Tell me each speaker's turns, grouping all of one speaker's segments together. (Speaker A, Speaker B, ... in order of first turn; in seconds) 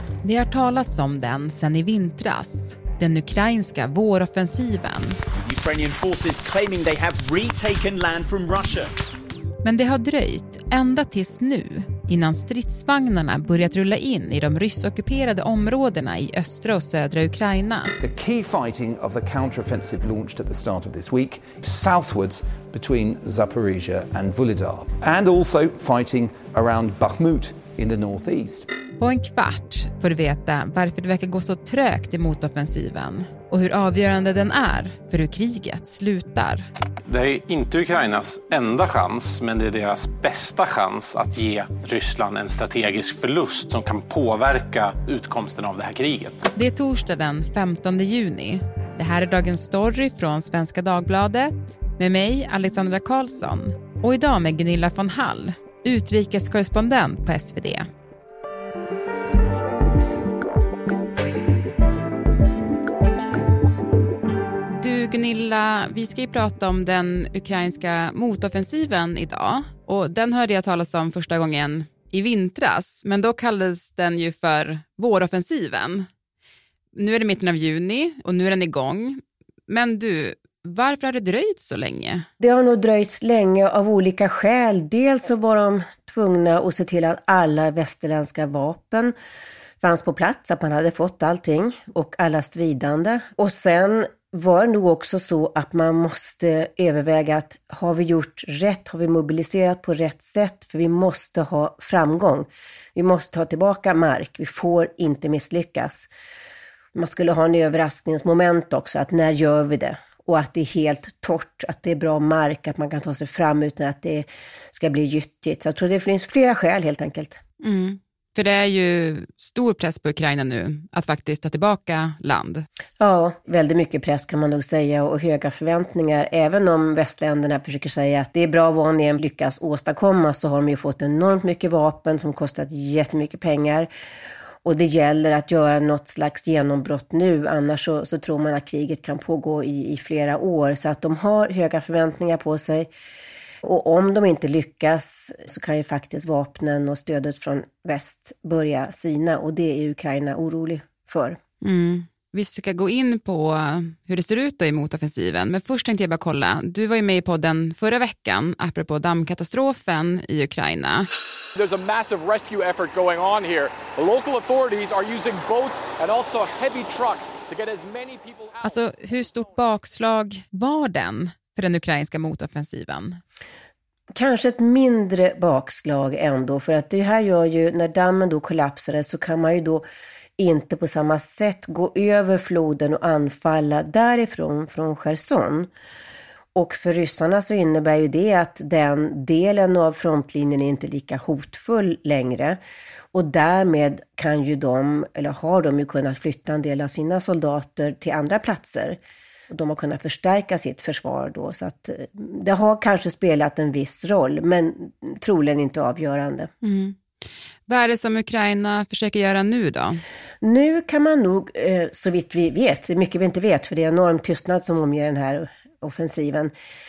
Speaker A: 0.2-5.2, 9.6-17.9, 29.0-36.6, 46.5-57.9, 64.7-76.1, 76.9-82.2, 117.6-122.6, 151.6-161.1, 168.6-173.2, 206.6-207.0, 207.7-210.0
Speaker B: 5.4-8.9
Speaker C: 18.0-28.7
Speaker D: 37.1-46.5
Speaker E: 82.4-89.1, 89.8-106.1, 106.9-117.4, 123.0-133.9, 134.6-142.9, 143.6-151.4, 174.1-179.8, 180.4-185.7, 186.5-192.6, 193.1-199.0, 199.5-206.5, 210.4-216.5
Speaker F: 161.5-168.9